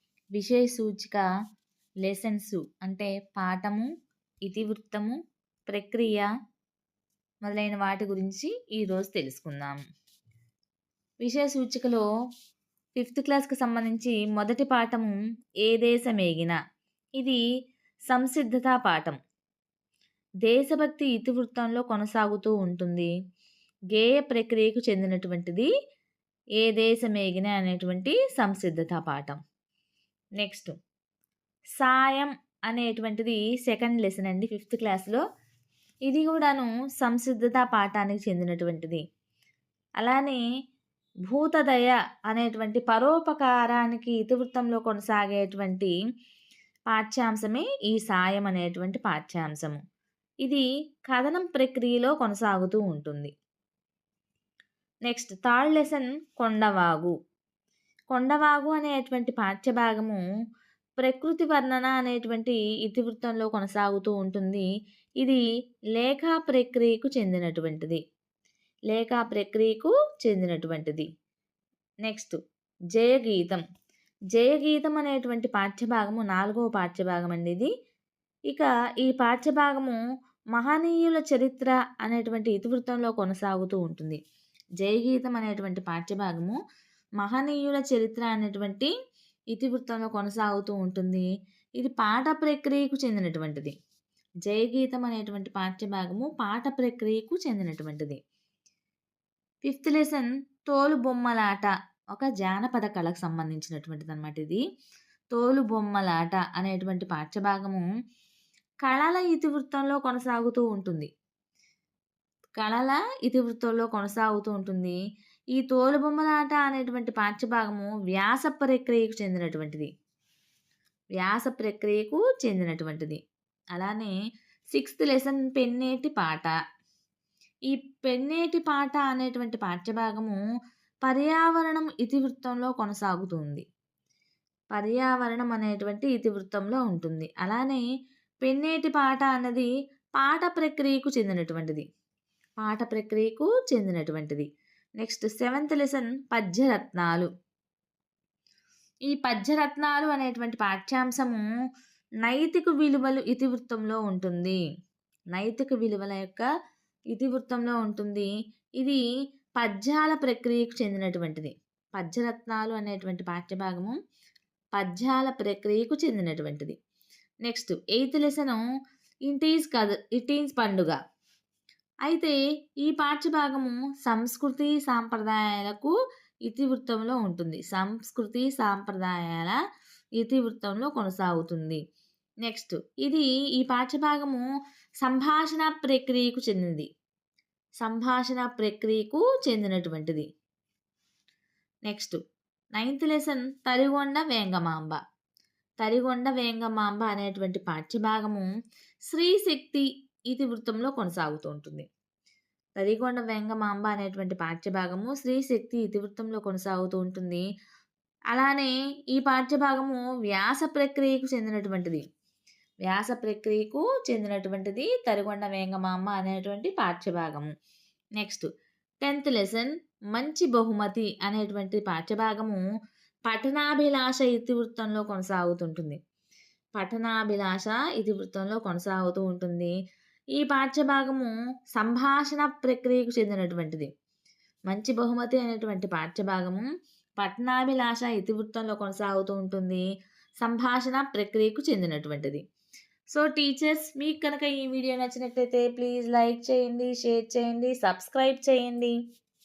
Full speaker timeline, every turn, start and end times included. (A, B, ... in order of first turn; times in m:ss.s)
0:00.4-0:01.2 A
0:02.0-0:03.9 A
0:04.4-0:05.1 A
0:05.7-0:06.3 A
0:07.4-0:09.8 A
0:11.2-0:12.0 A
0:13.0-0:15.1 A
0:15.6-0:16.6 A
0:18.1-0:19.2 A
0:20.4-0:23.1 A
0:23.9-0:25.7 A
0:26.6-0:29.4 A
0:30.4-0:30.7 A
0:31.8-0:35.2 A
0:36.0-0:39.0 A
0:40.0-0:40.4 A
0:41.3-0:45.9 A
0:46.9-0:49.8 A
0:50.4-0:53.3 A
0:55.1-0:57.1 A
0:58.1-1:00.2 A
1:01.0-1:04.6 A
1:06.0-1:08.0 A
1:08.9-1:11.0 A
1:12.0-1:12.4 A
1:12.9-1:13.6 A
1:14.3-1:17.7 A
1:18.5-1:20.0 A
1:20.6-1:24.2 A
1:24.8-1:26.6 A
1:27.2-1:28.9 A
1:29.5-1:31.2 A
1:31.8-1:33.7 A
1:34.4-1:38.2 A
1:39.6-1:44.6 A
1:45.3-1:47.8 A
1:48.8-1:51.1 A
1:52.6-1:55.0 A
1:55.5-1:59.9 A
2:01.2-2:03.2 A
2:03.7-2:04.1 A
2:04.7-2:06.5 A
2:07.7-2:10.4 A
2:11.0-2:13.6 A
2:14.7-2:17.8 A
2:18.4-2:19.7 A
2:20.2-2:21.8 A
2:22.6-2:24.4 A
2:25.0-2:27.3 A
2:29.1-2:31.4 A
2:32.2-2:34.6 A
2:35.3-2:36.4 A
2:37.1-2:38.3 A
2:39.6-2:44.0 A
2:44.8-2:46.7 A
2:47.4-2:48.6 A
2:49.3-2:51.0 A
2:52.1-2:55.9 A
2:56.4-2:59.6 A
3:00.2-3:01.8 A
3:02.4-3:04.4 A
3:05.0-3:06.9 A
3:07.8-3:10.2 A
3:11.9-3:12.2 A
3:12.8-3:15.0 A
3:15.8-3:18.5 A
3:19.1-3:21.8 A
3:22.8-3:27.4 A
3:28.3-3:32.0 A
3:32.8-3:37.5 A
3:38.2-3:38.5 A
3:39.0-3:42.6 A
3:43.3-3:46.0 A
3:46.8-3:49.7 A
3:50.4-3:53.9 A
3:54.7-3:56.6 A
3:57.2-3:59.8 A
4:00.4-4:02.4 A
4:03.1-4:08.9 A